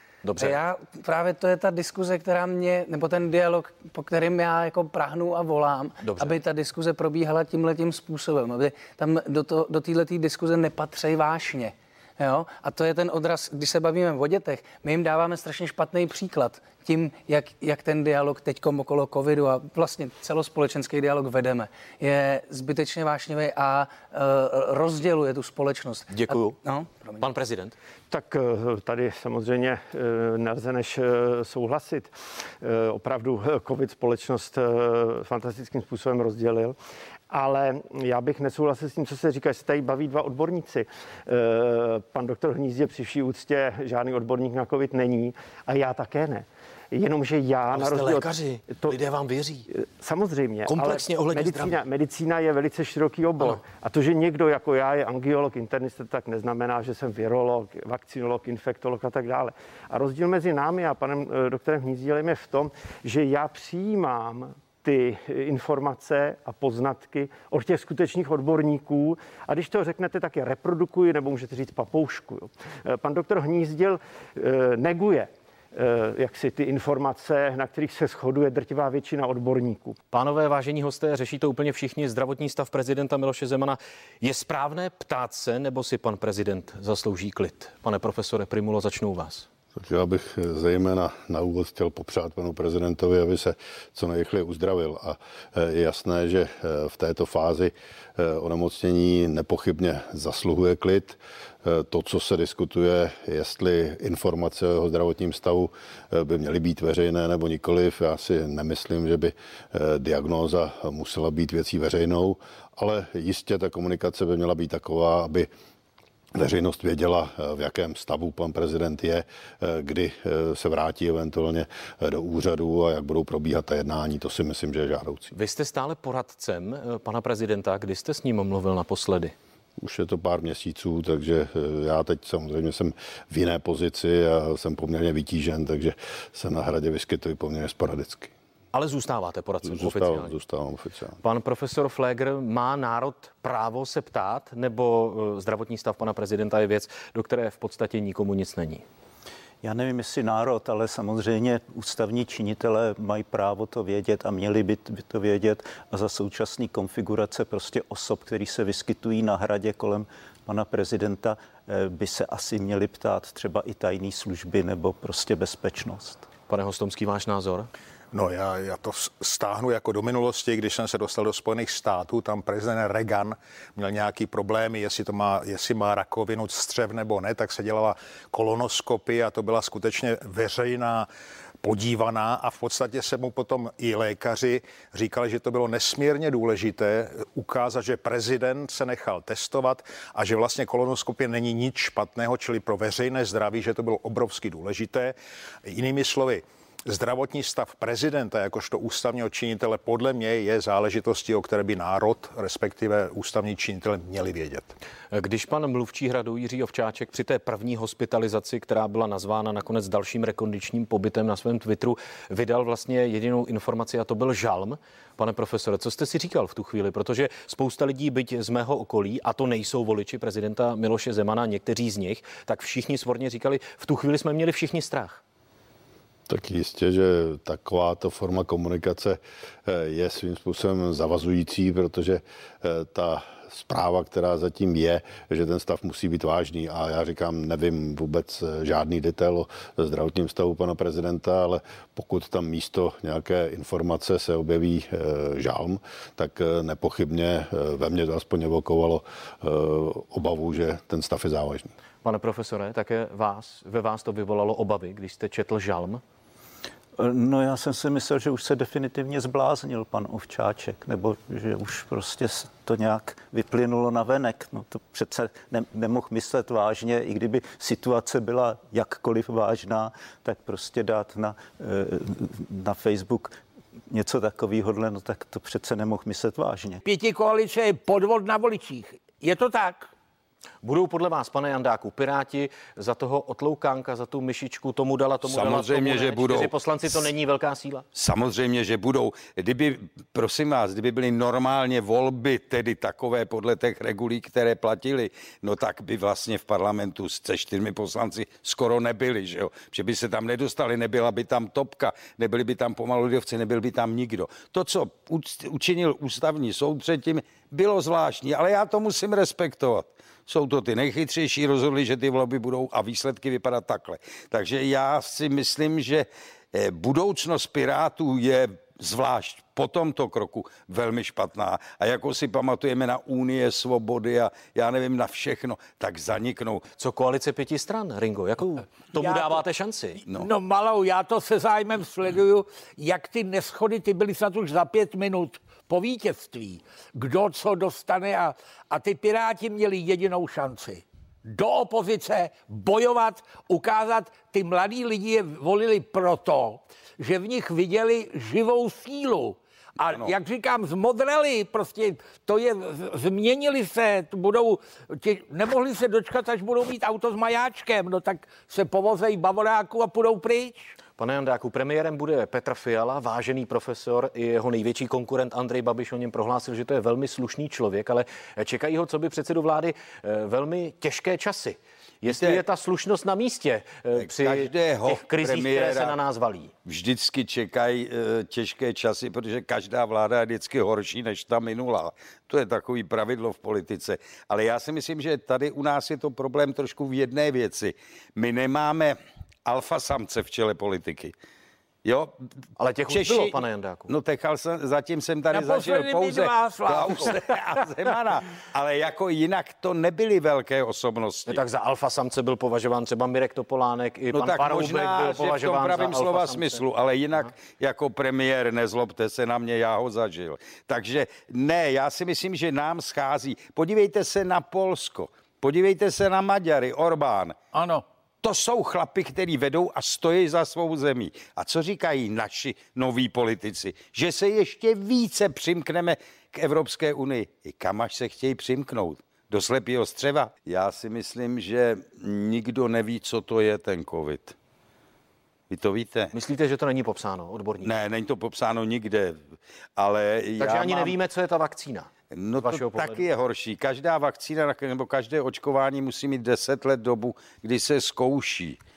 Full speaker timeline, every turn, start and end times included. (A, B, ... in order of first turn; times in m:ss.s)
0:00.2-0:00.6 A
0:00.4-0:27.2 B
0:06.0-0:06.4 A
0:26.1-0:26.6 A
0:27.2-0:27.7 A
0:28.1-0:36.8 C
0:37.3-0:49.0 C
0:47.7-0:49.7 A
0:49.7-1:20.0 C
0:50.7-0:51.8 A
1:20.1-1:29.5 A
1:29.7-1:55.5 D
1:56.3-2:05.3 D
2:05.3-2:09.3 A
2:09.8-2:18.3 D
2:18.7-2:20.4 A
2:19.6-2:21.2 D
2:21.2-2:28.8 A
2:29.6-2:46.2 E
2:46.5-2:47.7 A
2:48.1-3:01.1 F
3:01.6-3:24.7 F
3:25.1-3:45.2 A
3:46.3-4:11.7 D
4:12.0-4:16.0 A
4:17.0-4:36.8 E
4:36.8-4:39.9 G
4:40.6-4:47.8 A
4:45.2-4:47.0 H
4:47.9-5:26.6 H
5:26.8-5:30.0 A
5:29.0-5:29.4 G
5:30.1-6:00.7 G
6:01.0-6:16.5 A
6:12.0-6:12.4 H
6:14.0-6:16.0 H
6:16.6-6:31.1 H
6:31.8-6:32.1 H
6:32.6-6:33.9 A
6:32.9-6:41.4 H
6:35.3-6:38.0 G
6:41.2-6:46.6 A
6:44.1-6:57.4 H
6:57.5-6:57.8 G
6:58.2-7:14.3 H
7:15.5-7:16.1 H
7:16.1-7:17.7 A
7:17.6-7:19.2 H
7:19.8-7:20.9 H
7:20.4-7:21.9 A
7:22.1-7:28.6 H
7:22.4-7:23.0 A